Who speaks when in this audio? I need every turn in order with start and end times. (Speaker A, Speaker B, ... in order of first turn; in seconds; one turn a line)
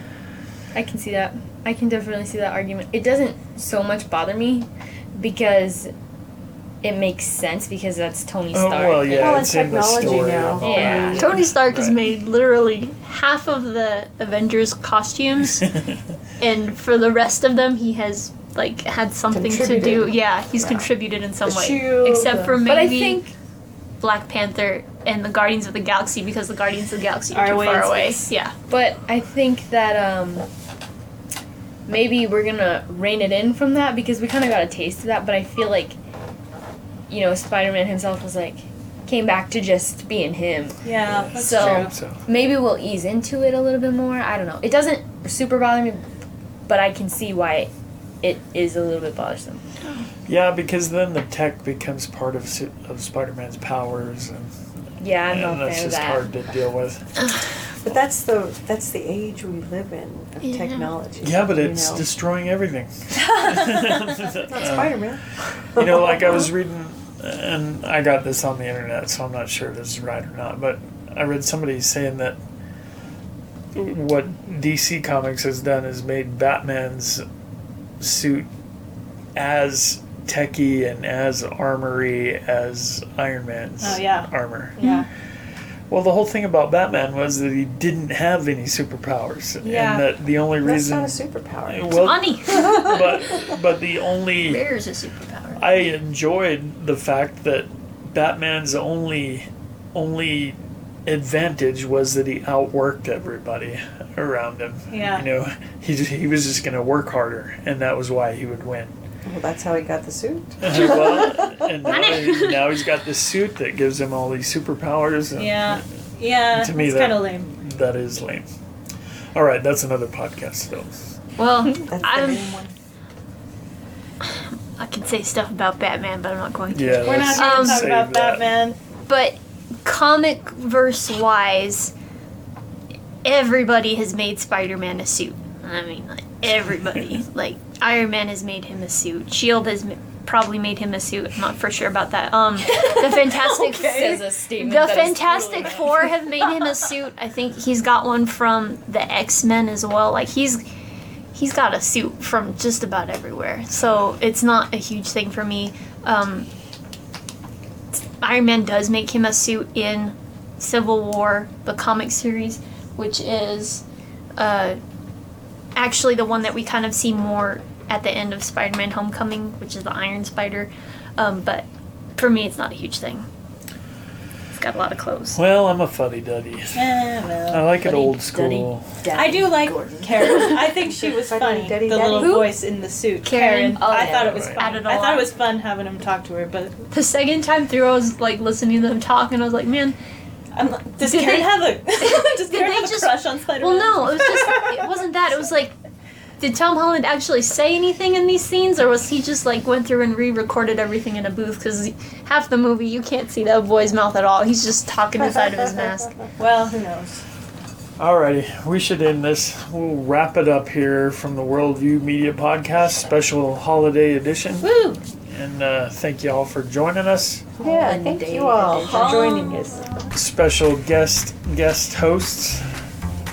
Speaker A: 0.7-5.9
Speaker A: 6.8-9.5
Speaker B: 8.5-12.0
Speaker C: 9.1-11.2
Speaker A: 10.6-11.3
Speaker D: 11.2-15.7
Speaker D: 16.4-23.3
Speaker C: 19.3-20.9
Speaker C: 21.4-22.5
Speaker A: 22.3-23.3
Speaker D: 24.0-28.5
Speaker E: 27.3-28.3
Speaker A: 28.7-30.5
Speaker A: 31.9-36.0
Speaker A: 37.1-40.8
Speaker E: 40.8-42.0
Speaker B: 41.0-42.2
Speaker A: 41.3-46.0
Speaker A: 46.7-47.7
Speaker A: 48.2-49.6
Speaker D: 49.8-50.1
Speaker B: 50.3-54.5
Speaker A: 55.0-56.3
Speaker B: 55.3-57.1
Speaker C: 57.8-62.1
Speaker D: 60.4-60.9
Speaker B: 61.2-65.0
Speaker E: 63.2-63.9
Speaker C: 64.5-65.2
Speaker C: 65.8-66.5
Speaker B: 65.8-72.4
Speaker B: 73.8-77.3
Speaker B: 78.0-78.5
Speaker B: 79.3-84.8
Speaker E: 83.8-85.0
Speaker A: 84.8-85.1
Speaker B: 85.9-94.6
Speaker E: 89.6-90.1
Speaker C: 90.6-93.5
Speaker D: 92.0-93.1
Speaker D: 94.4-95.9
Speaker B: 95.6-109.0
Speaker E: 104.9-105.2
Speaker C: 109.3-111.9
Speaker B: 110.6-115.8
Speaker D: 110.7-111.1
Speaker D: 111.8-112.8
Speaker E: 115.4-117.5
Speaker B: 116.5-118.5
Speaker B: 119.3-121.2
Speaker D: 121.4-122.6
Speaker C: 121.8-122.7
Speaker D: 124.3-127.9
Speaker B: 126.7-128.4
Speaker E: 127.0-128.8
Speaker D: 129.1-131.9
Speaker D: 133.2-150.6
Speaker E: 142.6-144.2
Speaker A: 143.9-146.1
Speaker D: 151.3-156.5
Speaker D: 158.2-163.8
Speaker D: 164.4-164.8
Speaker D: 165.8-171.7
Speaker D: 172.2-173.3
Speaker D: 174.6-175.4
Speaker B: 175.3-178.9
Speaker E: 176.8-177.7
Speaker A: 177.8-180.7
Speaker E: 179.1-186.8
Speaker C: 181.1-182.4
Speaker A: 182.2-182.5
Speaker D: 183.2-185.3
Speaker A: 183.8-184.5
Speaker B: 184.3-184.6
Speaker D: 186.9-190.0
Speaker E: 190.6-194.9
Speaker D: 191.0-195.7
Speaker D: 196.4-206.2
Speaker E: 206.4-207.2
Speaker B: 208.0-214.7
Speaker A: 214.6-215.0
Speaker B: 215.3-217.5
Speaker C: 217.6-219.9
Speaker A: 217.6-219.4
Speaker E: 218.9-219.6
Speaker B: 220.1-222.7